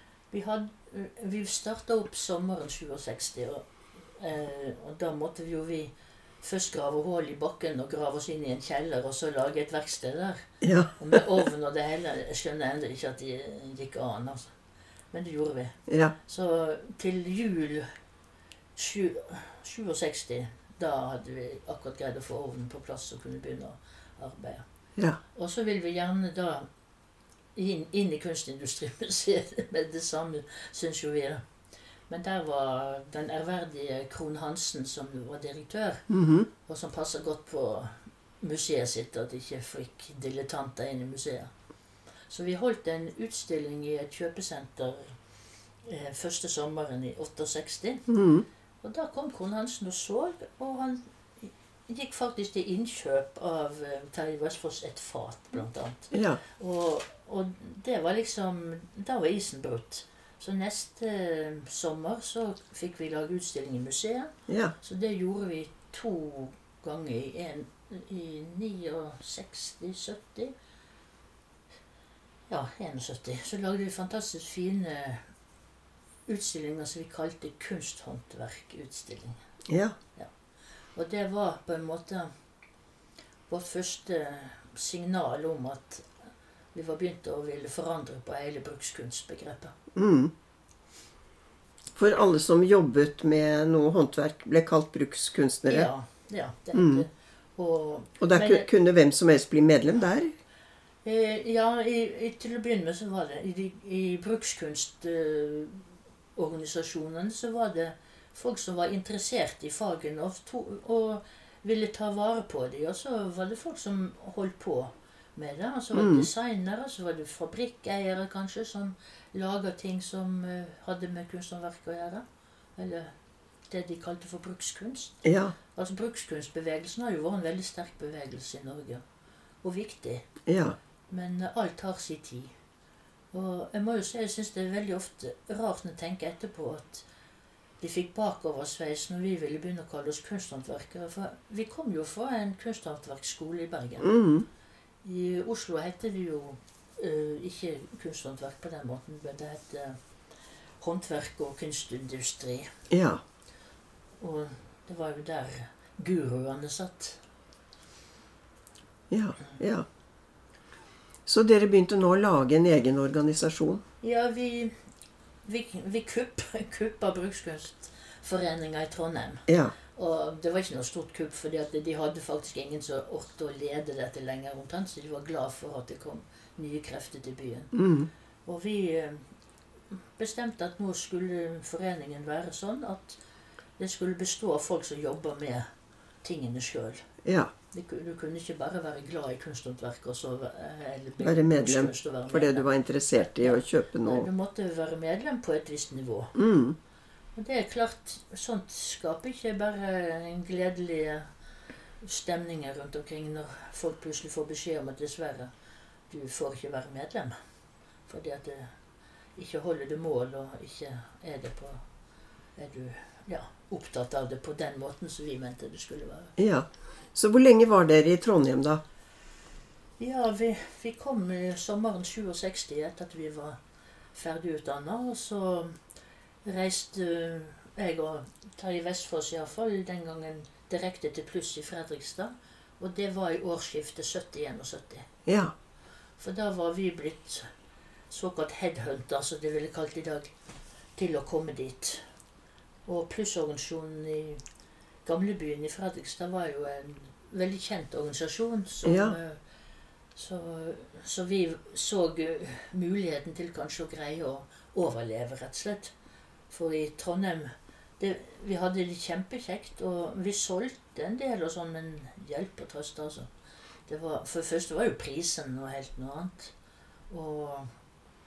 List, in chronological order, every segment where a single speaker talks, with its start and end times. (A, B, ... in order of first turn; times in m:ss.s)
0:00.3-0:14.5 A
0:10.6-0:11.2 B
0:15.1-0:17.9 A
0:15.9-0:16.1 B
0:18.8-0:24.6 A
0:25.3-0:26.7 A
0:27.6-0:31.4 A
0:32.1-0:36.1 A
0:36.1-0:36.5 B
0:36.6-0:41.5 A
0:42.3-0:45.1 A
0:45.8-0:48.1 A
0:48.1-0:48.4 B
0:48.8-1:10.5 A
0:56.1-0:56.4 B
1:04.5-1:04.7 B
1:12.5-1:15.2 A
1:16.3-1:19.4 A
1:19.7-1:19.9 B
1:20.9-1:22.3 A
1:23.5-1:26.1 A
1:26.7-1:29.8 A
1:29.9-1:30.3 B
1:32.0-1:35.9 B
1:35.6-1:38.6 A
1:36.7-1:37.0 B
1:38.2-1:40.3 B
1:41.0-1:45.8 A
1:46.4-2:02.2 A
1:55.9-1:56.3 B
2:02.8-2:03.1 A
2:03.7-2:05.2 A
2:05.2-2:05.5 B
2:05.7-2:09.0 A
2:09.6-2:10.3 A
2:10.5-2:10.8 B
2:11.1-2:12.5 A
2:13.3-2:17.0 A
2:17.8-2:24.1 A
2:24.0-2:24.4 B
2:25.0-2:30.0 A
2:30.8-2:32.7 A
2:32.9-2:33.2 B
2:34.2-2:37.2 A
2:39.1-2:39.8 B
2:41.2-2:43.8 B
2:44.0-2:44.7 A
2:45.4-2:57.7 A
2:49.5-2:49.7 B
2:57.7-2:58.1 B
2:58.4-2:59.2 A
3:00.2-3:03.2 A
3:03.8-3:05.6 A
3:06.2-3:07.1 A
3:07.2-3:07.5 B
3:07.7-3:16.3 A
3:11.2-3:14.3 B
3:16.3-3:16.8 B
3:17.4-3:21.3 A
3:22.0-3:25.5 A
3:26.1-3:27.3 A
3:28.1-3:28.7 A
3:29.4-3:31.8 A
3:32.6-3:36.3 A
3:36.4-3:38.8 B
3:40.0-3:43.6 A
3:44.1-3:45.8 A
3:46.4-3:55.1 A
3:55.2-3:55.5 B
3:56.2-3:57.5 A
3:58.1-4:00.3 A
4:01.0-4:02.0 A
4:02.8-4:04.4 A
4:05.0-4:09.4 A
4:08.8-4:09.2 B
4:10.1-4:15.9 A
4:16.5-4:23.3 A
4:23.9-4:26.5 A
4:27.1-4:27.7 A